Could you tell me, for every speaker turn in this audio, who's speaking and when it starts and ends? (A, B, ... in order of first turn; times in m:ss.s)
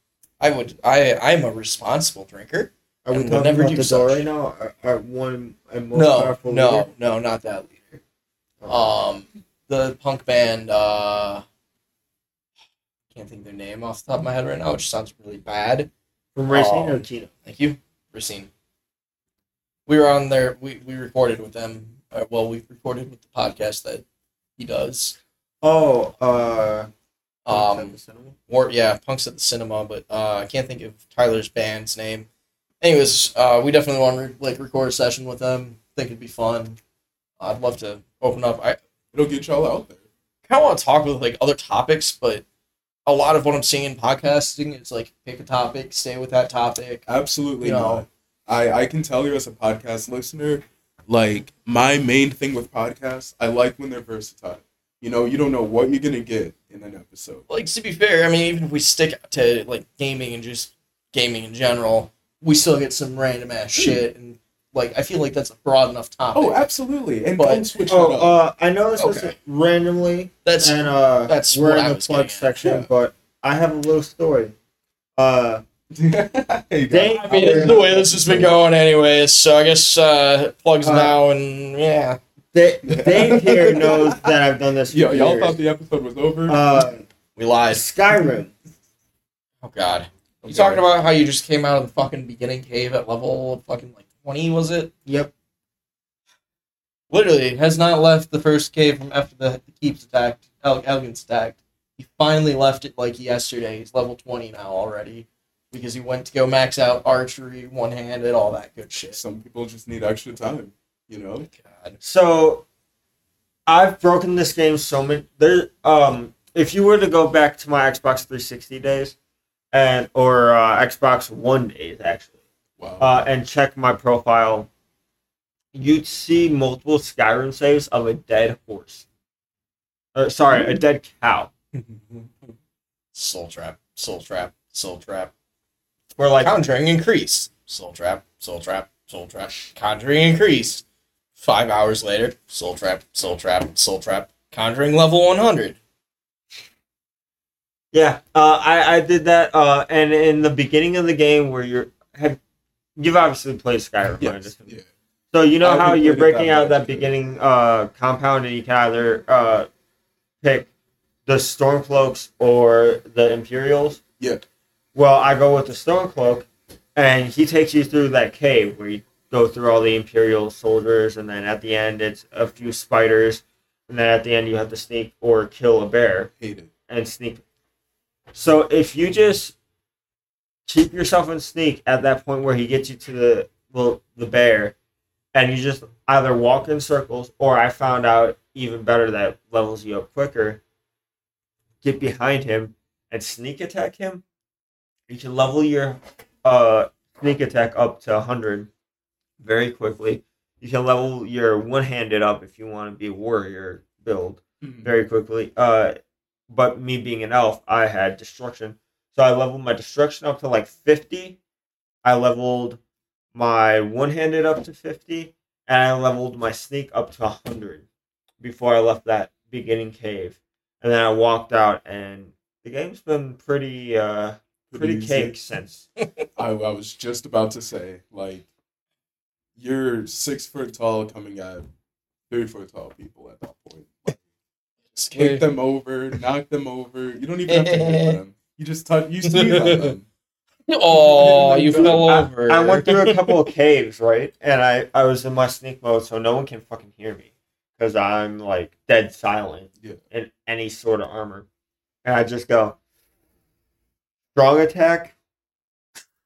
0:00.4-0:04.2 A
0:03.0-0:06.9 B
0:05.9-0:08.0 A
0:08.6-0:08.9 B
0:08.7-0:11.4 A
0:13.1-0:15.9 A
0:16.3-0:17.3 B
0:16.5-0:18.5 A
0:19.9-0:24.0 A
0:24.6-0:25.2 A
0:25.6-0:26.9 B
0:27.4-0:32.3 A
0:27.5-0:28.3 B
0:32.8-0:36.8 A
0:37.4-0:38.8 A
0:39.1-0:40.0 C
0:40.5-0:42.4 A
0:43.0-0:47.0 A
0:47.1-0:57.4 C
0:47.6-0:48.0 A
0:57.5-1:06.6 A
1:06.3-1:08.4 C
1:07.4-1:07.6 A
1:07.9-1:14.5 B
1:09.0-1:09.3 A
1:10.4-1:12.8 A
1:12.6-1:12.9 C
1:15.2-1:15.6 B
1:15.9-1:18.6 C
1:16.9-1:17.9 B
1:17.2-1:22.2 A
1:20.8-1:21.2 B
1:22.5-1:25.6 B
1:22.8-1:24.3 C
1:24.9-1:26.8 C
1:26.5-1:27.0 B
1:27.4-1:27.8 A
1:27.7-1:28.5 B
1:29.6-1:34.9 A
1:30.4-1:30.8 C
1:35.0-1:35.3 B
1:37.1-1:49.2 A
1:49.1-1:51.5 C
1:51.5-1:52.0 A
1:52.0-1:52.6 B
1:53.7-1:59.1 B
1:59.7-2:02.3 B
2:02.8-2:03.1 C
2:03.0-2:04.7 B
2:05.7-2:09.0 B
2:10.1-2:11.5 B
2:11.7-2:12.3 A
2:13.1-2:15.3 A
2:16.2-2:16.5 B
2:16.4-2:20.8 A
2:21.4-2:25.8 A
2:27.9-2:32.4 B
2:33.0-2:34.7 B
2:34.2-2:34.9 C
2:35.3-2:39.7 B
2:35.6-2:37.1 C
2:40.4-2:40.7 B
2:41.2-2:44.0 B
2:44.9-2:56.3 B
2:56.4-2:56.7 C
2:56.9-2:57.4 B
2:58.3-2:59.5 B
3:00.7-3:04.7 B
3:05.3-3:10.6 B
3:11.8-3:14.2 B
3:15.1-3:18.7 B
3:19.4-3:26.0 B
3:24.6-3:24.9 C
3:26.5-3:31.4 B
3:32.0-3:32.8 B
3:33.3-3:37.8 B
3:38.4-3:45.9 B
3:44.7-3:45.3 C
3:46.4-3:48.5 C
3:49.6-3:51.7 C
3:52.3-3:54.2 C
3:54.9-3:55.4 A
3:55.1-4:00.0 C
3:57.5-3:58.2 A
3:59.2-3:59.9 A
4:00.7-4:03.3 A
4:00.9-4:02.1 C
4:01.7-4:11.4 B
4:12.0-4:12.8 B
4:14.3-4:15.1 B